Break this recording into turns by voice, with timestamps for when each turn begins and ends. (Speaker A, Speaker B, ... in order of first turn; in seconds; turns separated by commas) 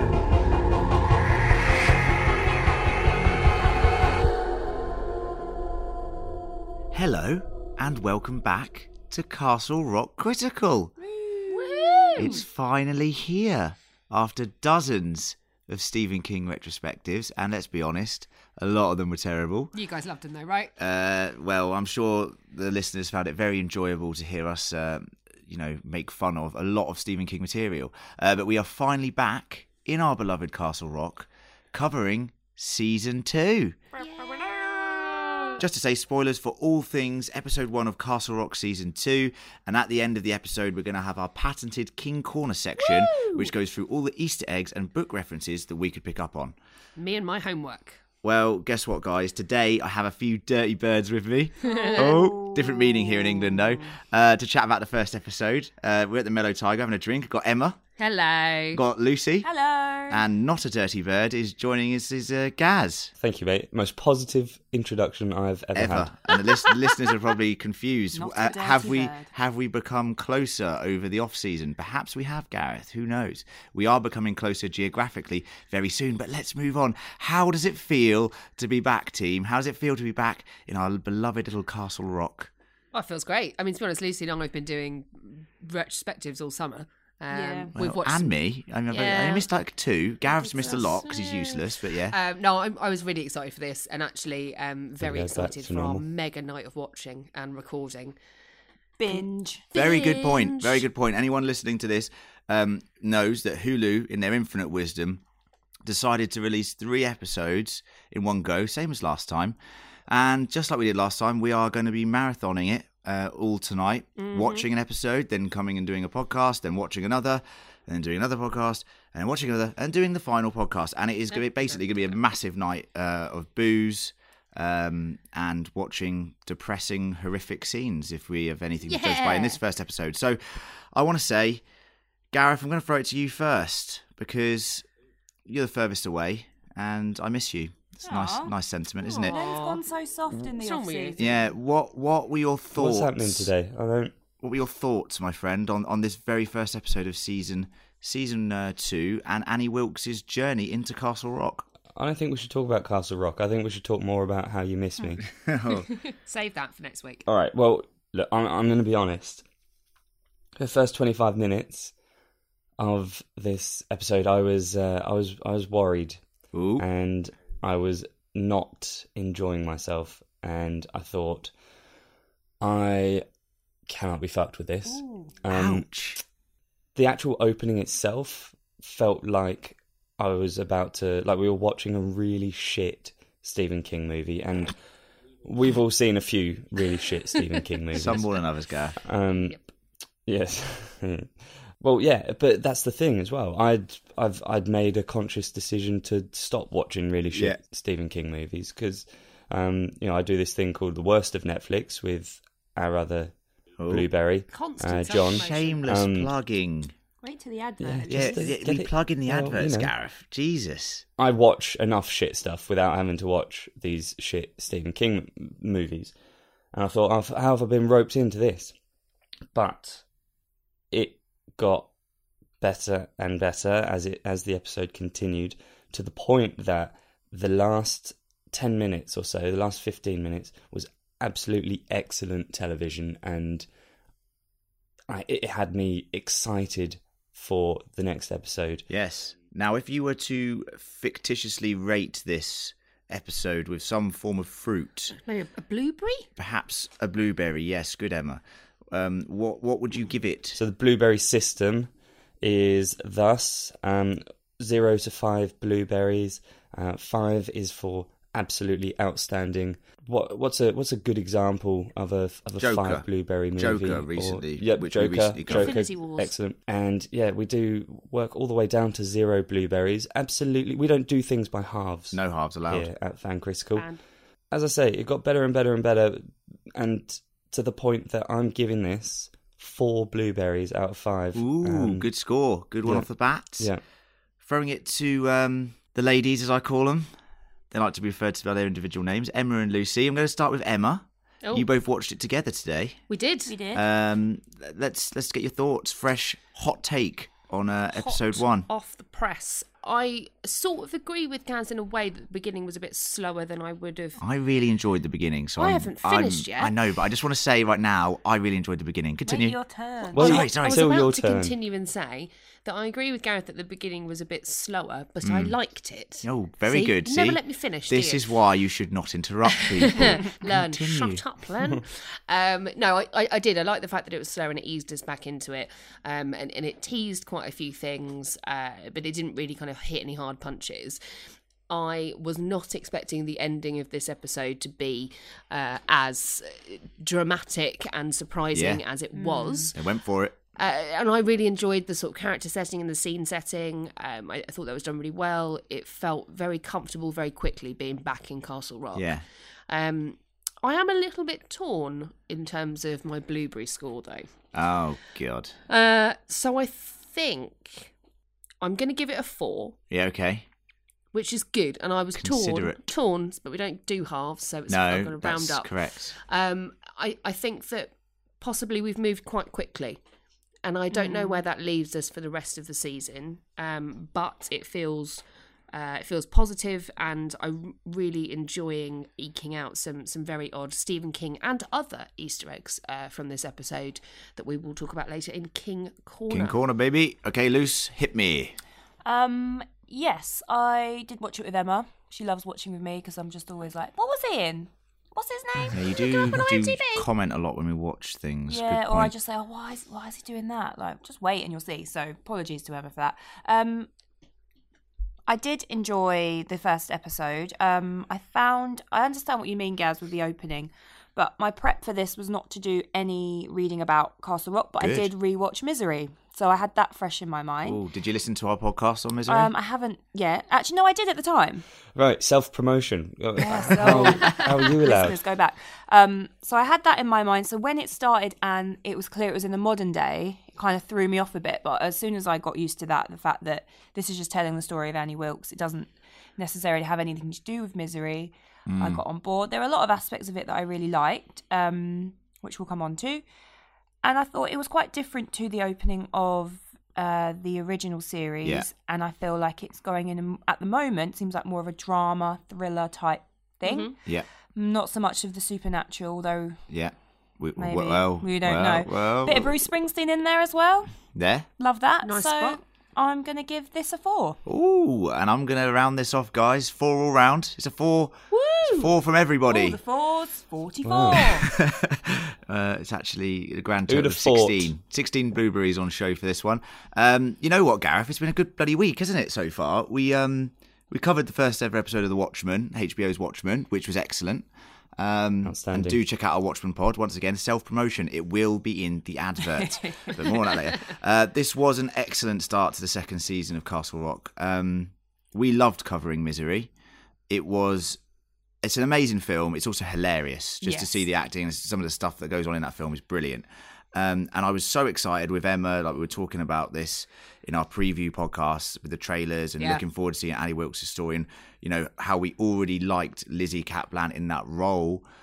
Speaker A: 6.9-10.9, Speaker B: 11.0-12.3, Speaker C: 11.5-12.4, Speaker A: 12.2-19.7, Speaker C: 19.7-20.7, Speaker A: 20.8-33.8, Speaker B: 34.0-34.5, Speaker C: 34.0-35.5, Speaker A: 35.6-46.5, Speaker C: 47.0-48.0, Speaker A: 48.2-57.8, Speaker C: 51.6-52.1, Speaker B: 51.6-53.8, Speaker C: 58.0-58.8, Speaker A: 58.7-59.5, Speaker B: 59.4-60.2, Speaker A: 60.1-63.1, Speaker D: 63.2-66.1, Speaker A: 65.7-82.5, Speaker B: 68.1-69.3, Speaker C: 82.9-88.3, Speaker B: 87.3-87.7, Speaker A: 87.7-92.2, Speaker C: 88.9-89.4, Speaker C: 90.4-98.2, Speaker B: 90.5-90.8, Speaker D: 95.0-96.0, Speaker B: 99.0-99.7, Speaker C: 99.7-100.8, Speaker A: 99.7-105.2, Speaker A: 105.8-109.6, Speaker A: 110.1-131.6, Speaker C: 114.2-114.7, Speaker C: 121.3-122.1, Speaker C: 128.8-129.6, Speaker A: 132.3-134.8, Speaker A: 135.4-139.3, Speaker B: 138.1-138.5, Speaker C: 139.1-139.8, Speaker B: 139.2-141.2, Speaker C: 140.6-141.4, Speaker A: 141.2-143.5, Speaker D: 142.8-144.1, Speaker A: 144.4-151.7, Speaker D: 151.9-155.2, Speaker A: 155.4-155.9, Speaker C: 156.1-157.2, Speaker D: 157.2-159.4, Speaker D: 160.6-161.9, Speaker D: 162.8-166.2, Speaker A: 166.5-166.8, Speaker D: 166.8-171.5, Speaker D: 172.6-173.2, Speaker D: 173.9-175.8, Speaker B: 174.9-175.2, Speaker A: 175.5-176.2, Speaker D: 176.9-184.7, Speaker D: 185.4-188.4, Speaker A: 187.9-188.9, Speaker D: 189.0-189.6, Speaker D: 190.2-203.3, Speaker A: 197.3-197.6, Speaker A: 203.8-204.1, Speaker D: 203.9-206.3, Speaker C: 204.5-205.8, Speaker A: 205.1-206.9, Speaker B: 207.2-208.2, Speaker D: 207.8-209.9, Speaker C: 207.8-208.4, Speaker A: 208.1-211.1, Speaker D: 211.2-216.1, Speaker D: 216.7-218.7, Speaker D: 219.5-220.0, Speaker D: 220.9-221.9, Speaker D: 222.6-233.7, Speaker D: 235.1-238.8, Speaker A: 238.9-245.2, Speaker C: 245.2-246.2, Speaker A: 246.4-250.6, Speaker D: 250.5-251.9, Speaker D: 252.4-272.2, Speaker A: 262.6-265.8, Speaker C: 265.4-266.3, Speaker A: 272.1-272.9, Speaker D: 272.7-273.9, Speaker C: 273.8-274.0, Speaker D: 274.5-282.1, Speaker A: 281.3-283.7, Speaker A: 284.4-287.1, Speaker A: 287.7-293.0, Speaker C: 293.1-293.6, Speaker B: 293.5-293.8, Speaker A: 293.7-298.7, Speaker C: 297.9-304.2, Speaker A: 304.2-309.6, Speaker C: 305.6-306.7, Speaker B: 309.2-310.4, Speaker C: 310.1-318.2, Speaker D: 310.1-311.5, Speaker A: 310.1-311.0, Speaker A: 315.2-315.5, Speaker A: 316.2-321.2, Speaker C: 319.6-331.0, Speaker C: 331.7-339.8, Speaker A: 338.5-338.8, Speaker B: 339.1-339.7, Speaker A: 339.7-340.4, Speaker C: 340.6-354.3, Speaker A: 348.9-349.2, Speaker A: 354.5-355.5, Speaker C: 355.7-357.9, Speaker C: 358.6-359.8, Speaker A: 359.9-360.4, Speaker C: 361.1-370.0, Speaker A: 362.1-362.8, Speaker A: 364.7-366.1, Speaker C: 370.6-386.6, Speaker B: 370.9-371.4, Speaker A: 386.3-388.6, Speaker B: 389.0-397.1, Speaker A: 395.7-399.1, Speaker B: 398.5-403.9, Speaker B: 405.3-417.8, Speaker A: 414.8-415.1, Speaker A: 417.6-419.5, Speaker B: 419.3-421.6, Speaker D: 421.9-425.2, Speaker B: 423.4-443.2, Speaker C: 423.9-424.6, Speaker A: 438.7-439.0, Speaker B: 444.0-453.9, Speaker C: 453.6-453.9, Speaker B: 454.5-456.6, Speaker A: 456.7-459.6, Speaker B: 457.6-460.9, Speaker A: 461.1-461.5, Speaker B: 461.6-464.4, Speaker C: 462.0-462.6, Speaker A: 464.4-469.8, Speaker C: 468.3-468.9, Speaker B: 469.5-471.5, Speaker D: 470.8-471.4, Speaker A: 471.4-496.7, Speaker D: 473.9-474.7, Speaker D: 485.4-486.0, Speaker B: 489.8-490.2, Speaker A: 497.3-498.0, Speaker A: 498.6-515.0, Speaker B: 500.6-501.1